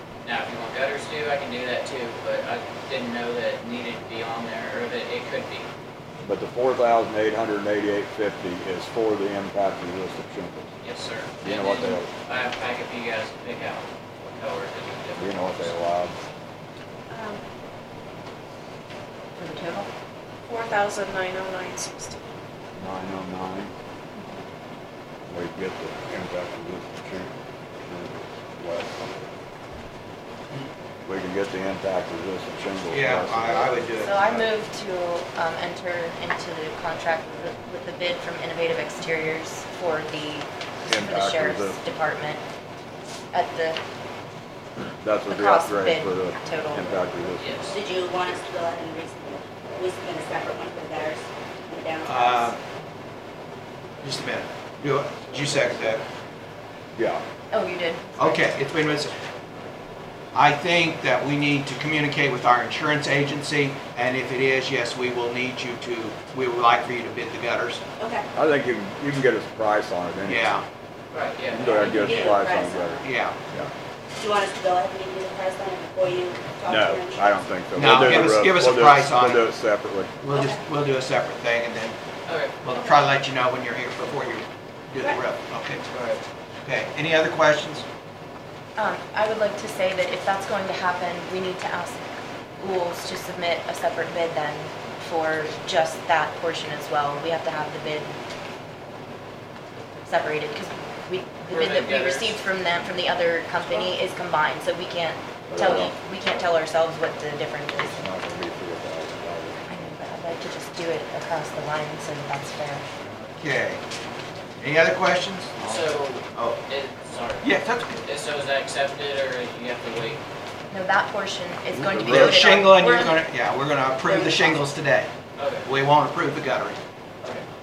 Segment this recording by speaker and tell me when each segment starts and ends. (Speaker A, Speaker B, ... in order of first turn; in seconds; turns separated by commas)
Speaker A: 0.2-5.7, Speaker B: 6.2-10.7, Speaker A: 10.8-15.7, Speaker B: 11.4-12.1, Speaker B: 15.2-16.2, Speaker C: 17.1-17.4, Speaker D: 19.4-19.9, Speaker C: 20.5-22.4, Speaker B: 22.8-23.7, Speaker B: 25.3-29.3, Speaker B: 31.0-33.7, Speaker E: 32.9-34.5, Speaker D: 33.7-42.4, Speaker B: 40.9-41.8, Speaker D: 43.3-43.8, Speaker B: 44.8-47.7, Speaker D: 45.3-47.0, Speaker A: 47.4-47.7, Speaker F: 47.7-52.5, Speaker E: 52.0-52.6, Speaker E: 54.0-56.0, Speaker B: 57.0-57.2, Speaker D: 57.5-58.6, Speaker E: 58.2-59.1, Speaker E: 60.3-67.8, Speaker F: 68.0-68.2, Speaker B: 68.3-70.6, Speaker E: 70.2-70.6, Speaker A: 71.1-72.3, Speaker B: 71.5-73.7, Speaker F: 71.7-73.1, Speaker E: 73.0-73.5, Speaker F: 74.1-77.3, Speaker B: 76.7-80.1, Speaker E: 77.7-79.4, Speaker E: 80.2-82.0, Speaker F: 80.3-80.6, Speaker A: 82.2-82.6, Speaker E: 82.6-87.8, Speaker F: 82.7-83.0, Speaker D: 88.8-98.1, Speaker D: 100.1-108.1, Speaker A: 101.5-102.4, Speaker B: 105.5-105.9, Speaker B: 107.9-109.6, Speaker D: 109.7-112.8, Speaker E: 113.3-113.8, Speaker E: 114.6-116.6, Speaker A: 115.6-117.5, Speaker E: 117.4-118.0, Speaker A: 118.0-120.2, Speaker D: 120.7-123.2, Speaker B: 121.7-122.4, Speaker E: 121.8-125.1, Speaker F: 124.0-124.6, Speaker A: 125.4-125.7, Speaker E: 125.6-126.8